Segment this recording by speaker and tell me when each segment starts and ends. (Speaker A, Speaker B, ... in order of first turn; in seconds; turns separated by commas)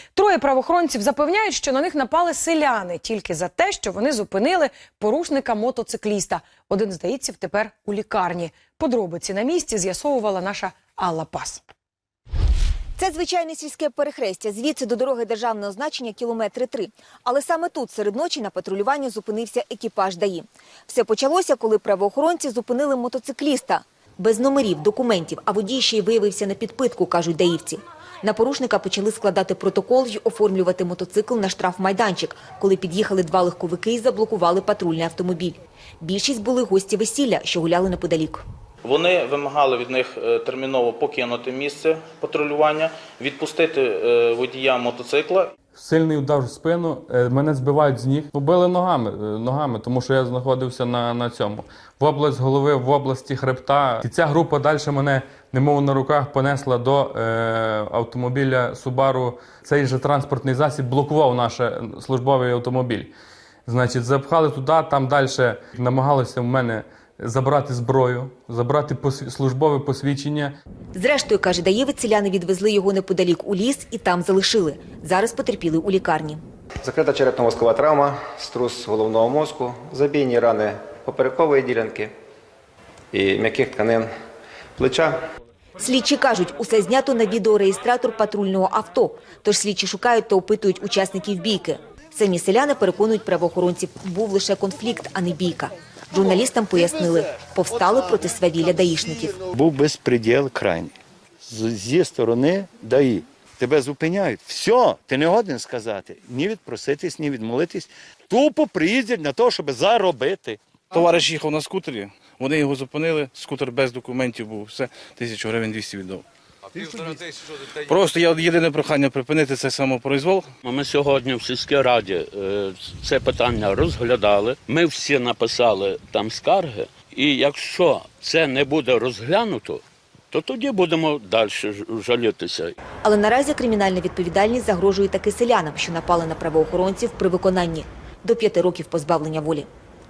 Speaker A: 0.2-11.6, Speaker B: 13.0-38.4, Speaker C: 38.9-45.5, Speaker D: 45.8-63.1, Speaker D: 63.7-70.6, Speaker B: 71.0-76.4, Speaker E: 76.8-82.1, Speaker E: 83.1-84.1, Speaker E: 84.8-85.2, Speaker B: 85.8-99.4, Speaker F: 99.5-100.9, Speaker F: 101.5-110.6, Speaker G: 110.9-116.2, Speaker G: 116.8-120.5, Speaker H: 120.6-132.7, Speaker B: 133.0-139.7